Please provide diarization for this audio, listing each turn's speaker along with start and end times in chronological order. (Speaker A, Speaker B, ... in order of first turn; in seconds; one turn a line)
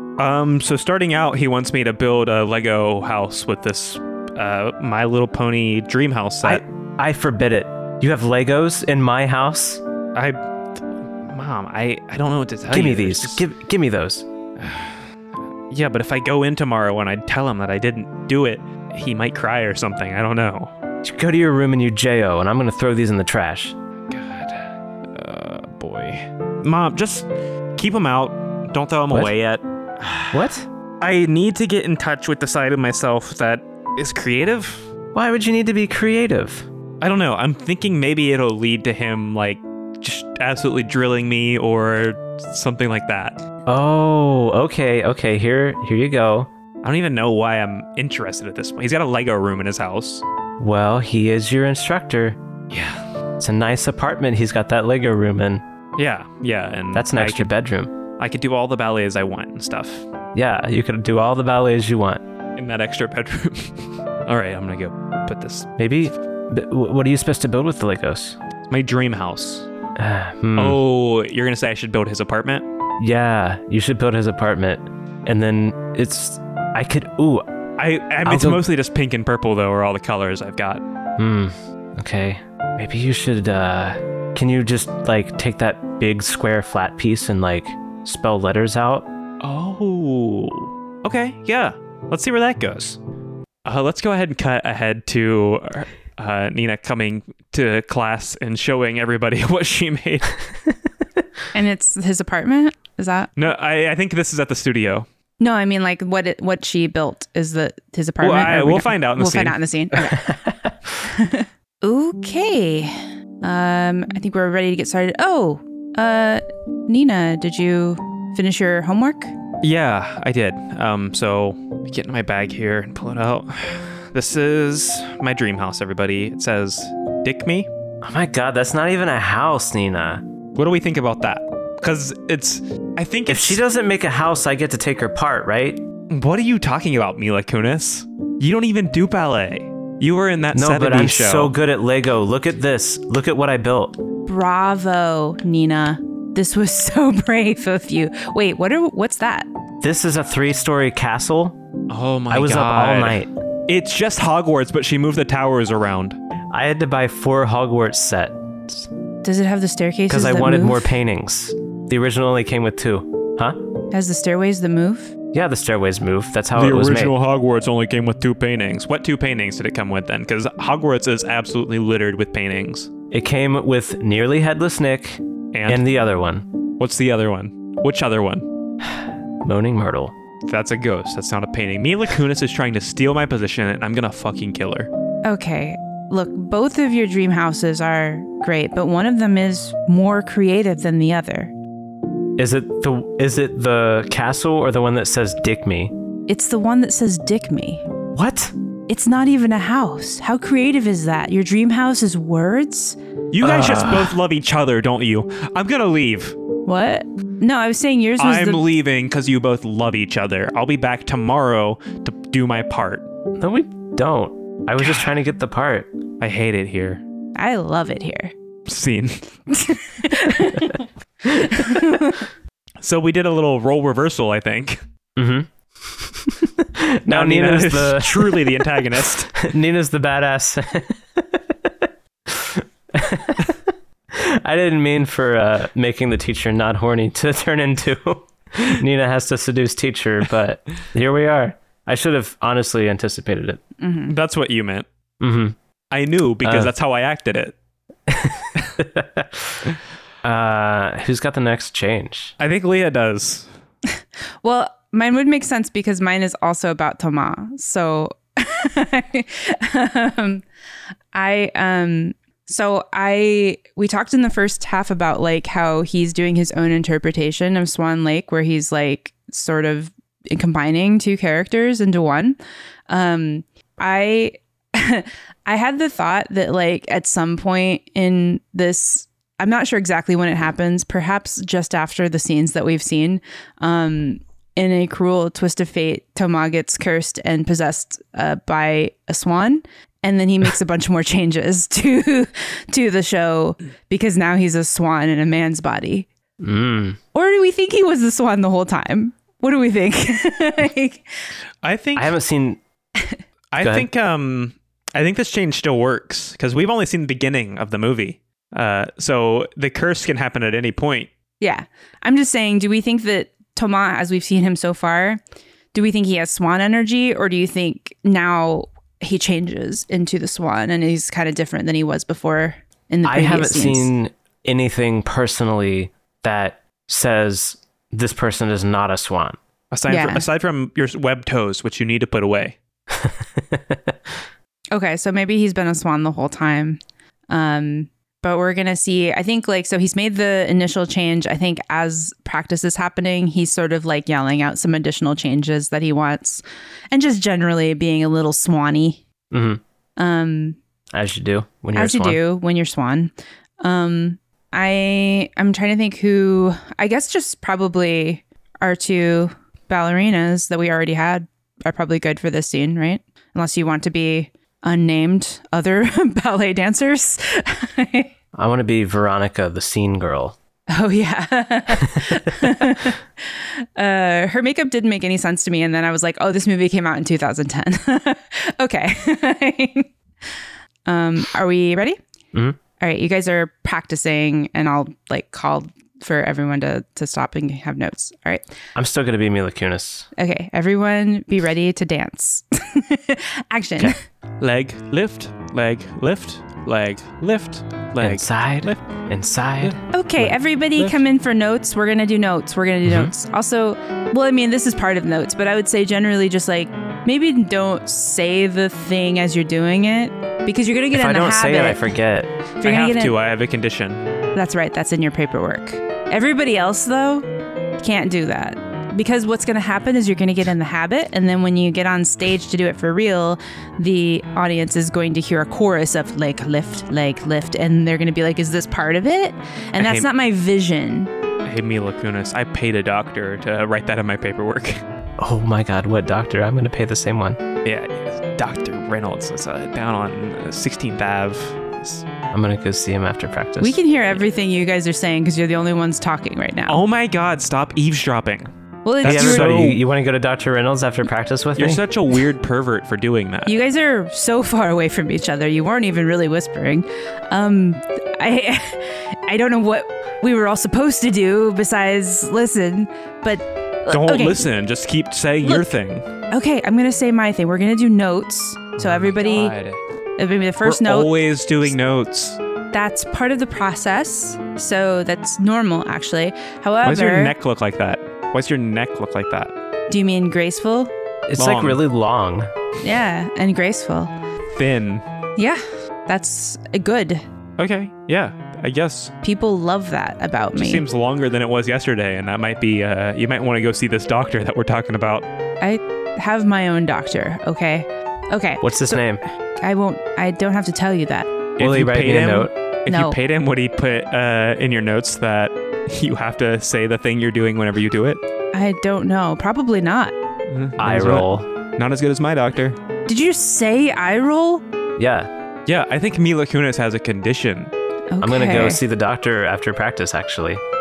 Speaker A: 0.2-6.6
Speaker B: 6.4-9.8
Speaker A: 10.1-13.4
Speaker B: 12.7-14.3
Speaker A: 14.6-15.0
Speaker A: 15.7-20.7
Speaker B: 21.0-23.8
Speaker A: 24.1-34.9
Speaker B: 30.3-30.7
Speaker B: 35.1-36.7
Speaker A: 37.0-43.4
Speaker B: 43.6-46.5
Speaker A: 46.8-50.2
Speaker B: 50.6-52.4
Speaker A: 52.7-53.0
Speaker B: 53.4-55.6
Speaker A: 56.0-57.5
Speaker B: 56.9-57.9
Speaker A: 58.2-60.0
Speaker B: 60.3-62.2
Speaker A: 62.6-65.7
Speaker B: 65.8-68.4
Speaker A: 68.7-69.7
Speaker B: 70.0-70.8
Speaker A: 70.5-72.7
Speaker B: 73.0-77.5
Speaker A: 77.8-80.8
Speaker B: 78.2-78.6
Speaker B: 81.2-89.1
Speaker A: 89.4-93.0
Speaker A: 93.6-100.4
Speaker C: 101.5-103.3
Speaker A: 103.3-105.1
Speaker C: 105.4-110.3
Speaker A: 108.2-109.6
Speaker B: 110.1-110.8
Speaker C: 111.0-119.3
Speaker A: 119.6-127.7
Speaker B: 128.0-130.2
Speaker A: 130.5-133.6
Speaker B: 133.3-135.8
Speaker A: 136.1-141.5
Speaker B: 140.5-144.0
Speaker C: 144.2-149.5
Speaker B: 149.8-151.6
Speaker A: 151.9-156.2
Speaker B: 152.3-153.3
Speaker B: 156.5-158.9
Speaker C: 159.2-160.9
Speaker B: 160.1-163.6
Speaker C: 163.9-165.1
Speaker B: 165.3-167.1
Speaker A: 166.5-172.9
Speaker B: 173.1-176.5
Speaker A: 175.5-175.8
Speaker A: 176.8-178.5
Speaker B: 178.8-180.1
Speaker A: 180.5-184.9
Speaker C: 185.2-191.5
Speaker B: 192.4-195.9
Speaker C: 196.3-197.8
Speaker B: 198.1-198.5
Speaker C: 198.9-203.0
Speaker A: 203.3-206.3
Speaker B: 203.4-204.2
Speaker C: 206.7-208.6
Speaker A: 208.2-213.1
Speaker B: 213.4-215.9
Speaker A: 214.8-215.1
Speaker A: 216.2-217.0
Speaker C: 217.3-218.3
Speaker A: 218.7-219.2
Speaker C: 219.5-222.3
Speaker A: 222.8-224.8
Speaker B: 225.2-228.7
Speaker A: 227.1-229.4
Speaker B: 229.3-243.6
Speaker C: 243.8-244.1
Speaker A: 244.1-244.8
Speaker B: 245.2-245.6
Speaker A: 245.9-247.6
Speaker B: 246.4-246.7
Speaker B: 248.1-249.7
Speaker B: 250.2-252.3
Speaker A: 252.4-253.5
Speaker C: 254.4-260.4
Speaker C: 261.1-272.4
Speaker C: 272.9-296.1
Speaker B: 296.4-297.0
Speaker C: 297.1-301.1
Speaker A: 301.6-302.1
Speaker B: 301.9-302.6
Speaker A: 303.5-311.1
Speaker B: 303.6-303.9
Speaker C: 311.4-315.2
Speaker C: 315.7-323.9
Speaker B: 323.0-329.4
Speaker A: 329.7-332.6
Speaker C: 329.9-330.2
Speaker B: 332.9-334.1
Speaker C: 334.7-349.0
Speaker B: 349.3-349.6
Speaker C: 350.0-350.6
Speaker B: 350.9-352.2
Speaker C: 351.7-368.1
Speaker B: 368.3-370.4
Speaker C: 370.7-379.9
Speaker B: 371.9-372.5
Speaker C: 380.9-382.0
Speaker B: 382.3-382.6
Speaker C: 382.8-388.4
Speaker B: 388.7-390.1
Speaker C: 390.1-394.0
Speaker A: 394.4-399.0
Speaker B: 398.0-400.3
Speaker C: 399.9-411.8
Speaker B: 402.8-403.1
Speaker B: 410.9-412.3
Speaker C: 412.6-413.1
Speaker A: 412.6-414.0
Speaker C: 414.3-417.3
Speaker C: 417.8-431.1
Speaker A: 429.8-430.1
Speaker A: 431.4-434.8
Speaker B: 435.2-437.4
Speaker A: 437.6-442.0
Speaker B: 442.3-443.8
Speaker C: 443.6-446.8
Speaker A: 446.7-449.8
Speaker C: 448.8-449.6
Speaker B: 449.0-451.8
Speaker A: 451.6-453.5
Speaker C: 453.4-464.4
Speaker A: 463.9-466.1
Speaker C: 465.4-465.8
Speaker C: 466.3-469.6
Speaker A: 468.8-469.8
Speaker C: 470.2-471.1
Speaker A: 470.6-472.4
Speaker C: 472.7-477.3
Speaker A: 476.8-479.5
Speaker C: 479.9-480.9
Speaker B: 481.3-482.5
Speaker A: 481.4-481.8
Speaker C: 482.8-484.1
Speaker A: 484.5-485.0
Speaker C: 485.4-487.2
Speaker A: 487.6-489.1
Speaker C: 489.2-490.8
Speaker A: 490.6-495.2
Speaker C: 495.6-501.3
Speaker B: 498.6-499.2
Speaker A: 501.6-508.2
Speaker B: 501.6-502.5
Speaker C: 502.9-503.2
Speaker C: 508.5-510.1
Speaker A: 510.5-512.8
Speaker B: 510.8-511.5
Speaker C: 513.1-514.6
Speaker B: 515.0-515.3
Speaker A: 515.6-517.7
Speaker C: 518.1-518.8
Speaker B: 518.2-520.6